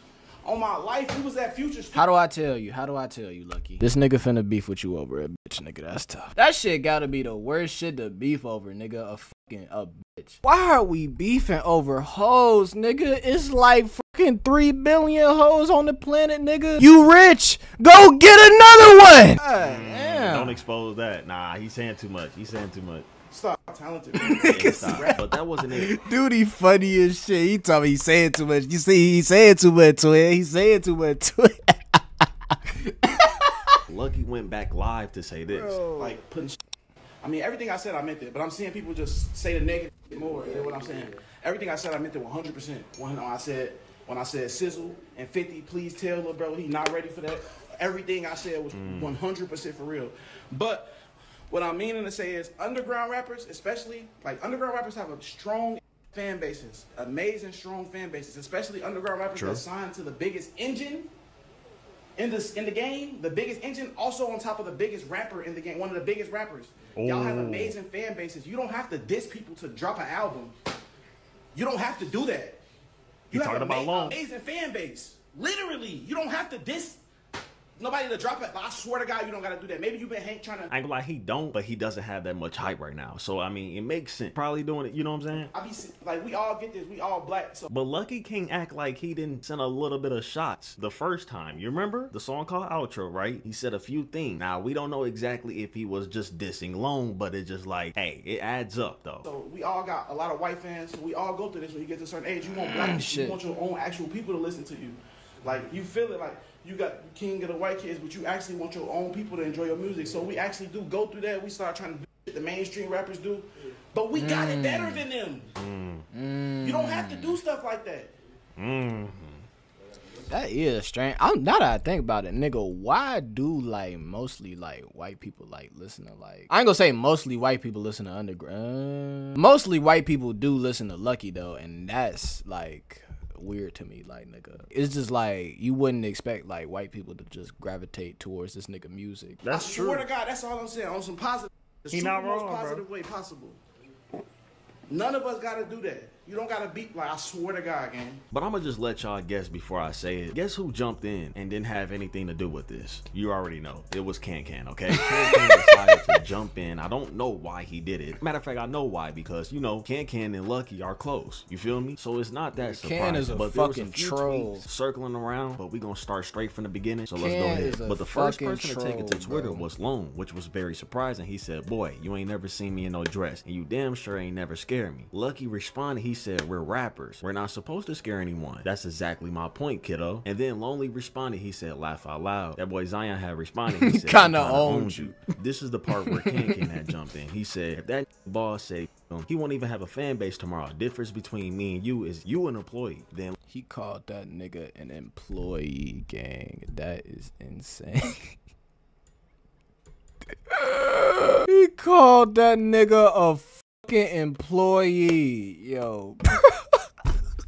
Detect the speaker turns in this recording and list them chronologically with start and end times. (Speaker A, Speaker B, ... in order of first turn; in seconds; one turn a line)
Speaker A: 0.4-2.0
Speaker B: 1.9-20.6
Speaker C: 19.6-23.1
Speaker A: 23.3-25.2
Speaker B: 24.1-25.2
Speaker C: 24.4-25.9
Speaker B: 25.7-33.8
Speaker C: 33.9-35.8
Speaker B: 35.5-36.2
Speaker A: 36.0-36.6
Speaker A: 37.2-50.9
Speaker C: 48.7-49.1
Speaker A: 51.5-61.1
Speaker C: 59.3-59.6
Speaker A: 62.2-70.5
Speaker C: 67.0-67.7
Speaker A: 71.5-72.6
Speaker C: 73.3-74.2
Speaker A: 73.3-77.0
Speaker A: 77.8-80.7
Speaker C: 80.7-85.5
Speaker A: 85.5-87.7
Speaker C: 87.7-99.2
Speaker A: 99.2-115.5
Speaker B: 102.5-103.4
Speaker B: 114.1-115.0
Speaker C: 115.5-116.0
Speaker B: 116.1-117.4
Speaker A: 116.6-118.1
Speaker C: 118.6-119.4
Speaker B: 120.3-139.4
Speaker C: 139.4-140.1
Speaker A: 139.5-143.6
Speaker C: 141.9-142.8
Speaker A: 144.9-148.2
Speaker C: 148.3-193.3
Speaker B: 154.9-156.0
Speaker B: 162.6-164.7
Speaker B: 167.2-169.7
Speaker B: 183.8-185.2
Speaker B: 186.0-186.7
Speaker B: 193.5-198.3
Speaker B: 200.5-206.6